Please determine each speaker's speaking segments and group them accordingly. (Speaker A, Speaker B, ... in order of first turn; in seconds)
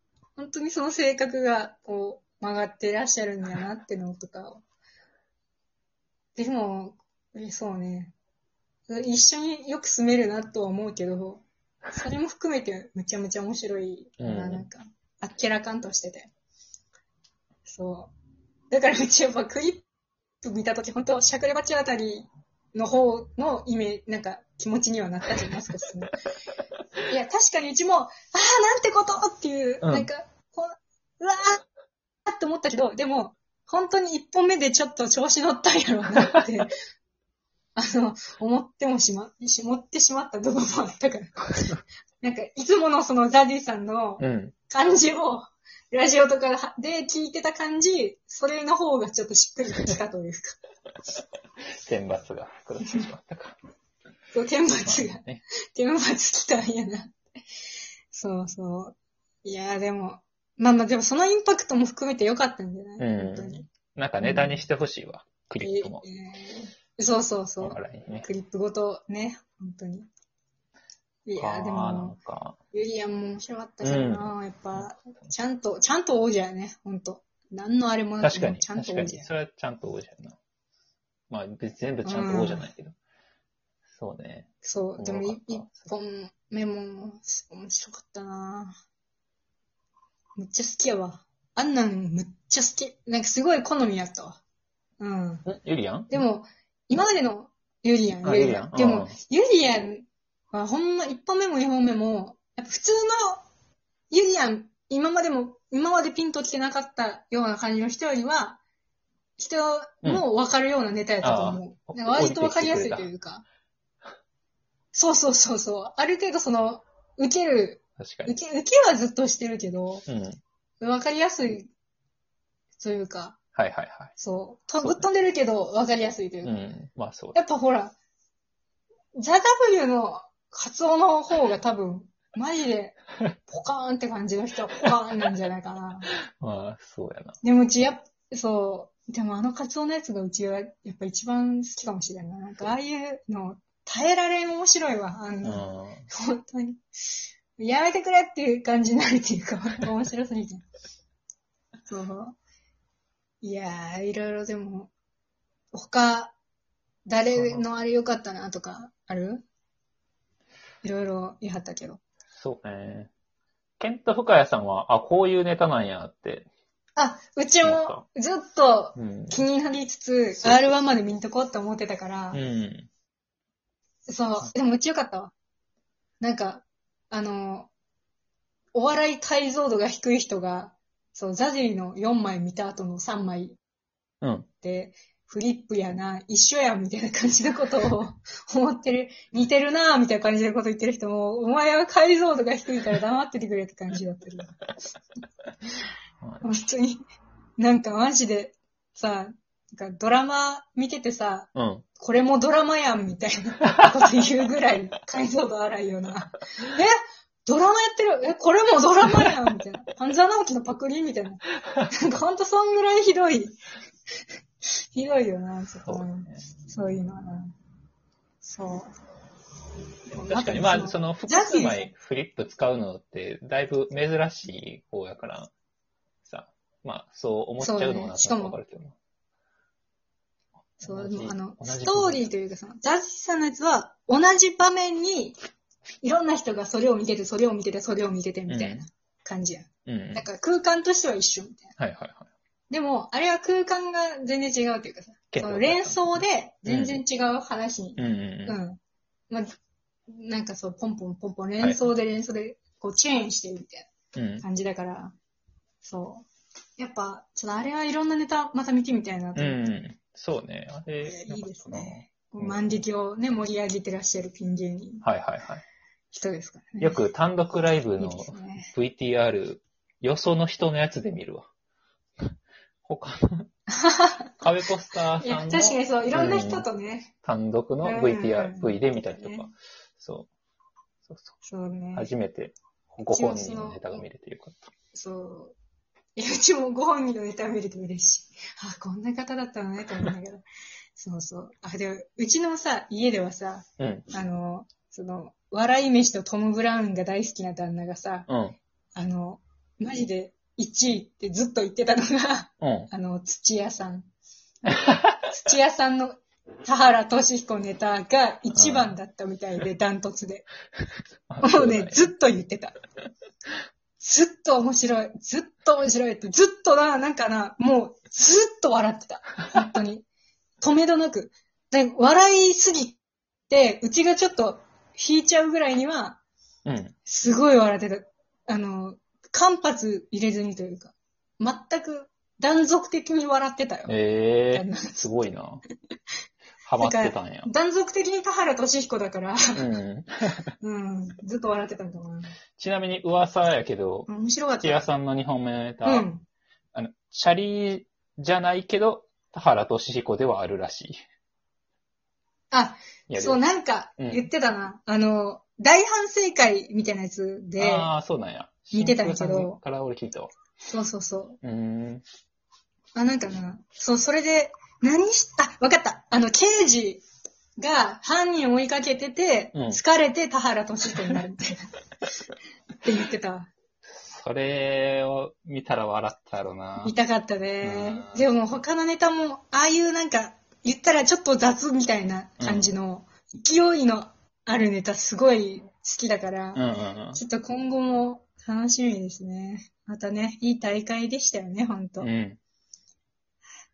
Speaker A: 0.3-4.6, 6.3-8.1, 8.9-16.3, 17.6-18.1, 18.7-19.8, 20.4-26.2, 27.1-31.6, 32.2-36.7, 37.8-50.6, 54.3-57.1, 58.1-63.7, 64.2-64.6, 65.6-70.1, 71.2-72.2, 72.7-79.3, 82.0-82.7, 84.6-88.7, 90.4-94.4, 95.0-95.5, 96.1-103.4, 104.1-108.6, 109.4-113.4, 114.9-120.0, 120.8-121.7, 122.8-123.4, 124.2-126.6, 127.3-127.9, 129.1-136.1, 137.4-146.8, 147.6-150.7, 151.9-152.3, 153.4-154.9, 155.7-156.3, 157.1-159.4, 160.8-162.0, 167.0-172.4, 174.1-175.3, 176.2-177.7, 178.7-183.6, 184.6-194.6, 196.4-197.0, 197.6-213.6, 214.9-217.5, 218.4-218.9, 220.1-221.9, 227.6-228.6, 230.8-235.4, 236.0-241.7, 242.7-248.8, 250.1-253.9, 254.4-255.1, 255.8-256.3, 256.8-259.6, 261.0-265.0, 266.1-267.0, 268.0-268.7, 273.8-274.2, 275.2-277.1, 277.8-279.5, 281.4-282.1, 283.1-284.0, 284.9-285.5, 286.1-290.4, 290.9-298.3, 298.9-304.1, 305.3-310.5, 311.4-312.8, 314.0-320.0, 320.6-323.0, 323.5-326.2, 327.0-334.0, 334.5-335.0, 336.8-339.6, 340.6-342.3, 344.1-344.9, 345.8-346.2, 352.5-357.9, 358.7-359.6, 360.7-361.4, 362.9-367.0, 367.6-371.7, 372.8-373.5, 376.8-386.6, 387.1-392.1
Speaker B: 14.2-14.7, 29.8-30.1, 44.2-44.5, 51.8-53.5, 54.8-55.4, 63.0-66.0, 67.6-68.3, 71.4-72.6, 73.8-75.0, 78.2-80.4, 81.3-83.0, 83.9-85.7, 95.5-96.2, 98.2-99.2, 111.2-113.1, 118.0-118.3, 120.0-120.4, 123.5-124.1, 124.8-125.0, 126.4-127.4, 136.1-137.4, 145.4-146.1, 157.3-157.6, 162.3-163.1, 163.8-166.5, 167.6-168.0, 168.9-169.4, 172.3-172.9, 184.2-184.5, 196.2-196.5, 201.5-201.8, 215.8-216.4, 220.1-225.5, 226.2-228.9, 230.8-232.3, 238.5-238.8, 239.8-240.2, 241.8-242.3, 245.3-247.0, 248.0-248.6, 254.1-254.4, 259.4-262.8, 265.0-265.6, 266.8-271.5, 272.8-273.5, 274.4-276.7, 277.2-280.3, 281.0-281.3, 281.9-284.7, 293.8-294.1, 298.3-298.6, 302.6-302.9, 304.6-305.4, 308.5-308.9, 311.3-312.1, 326.6-326.9, 333.9-335.6, 336.6-337.5, 339.5-340.5, 342.6-344.1, 344.6-346.1, 346.7-351.0, 353.1-353.4, 354.0-354.3, 357.6-360.3, 361.4-362.0, 369.5-369.8, 373.9-376.9, 377.6-378.3, 382.4-382.8, 386.5-387.2, 392.0-392.4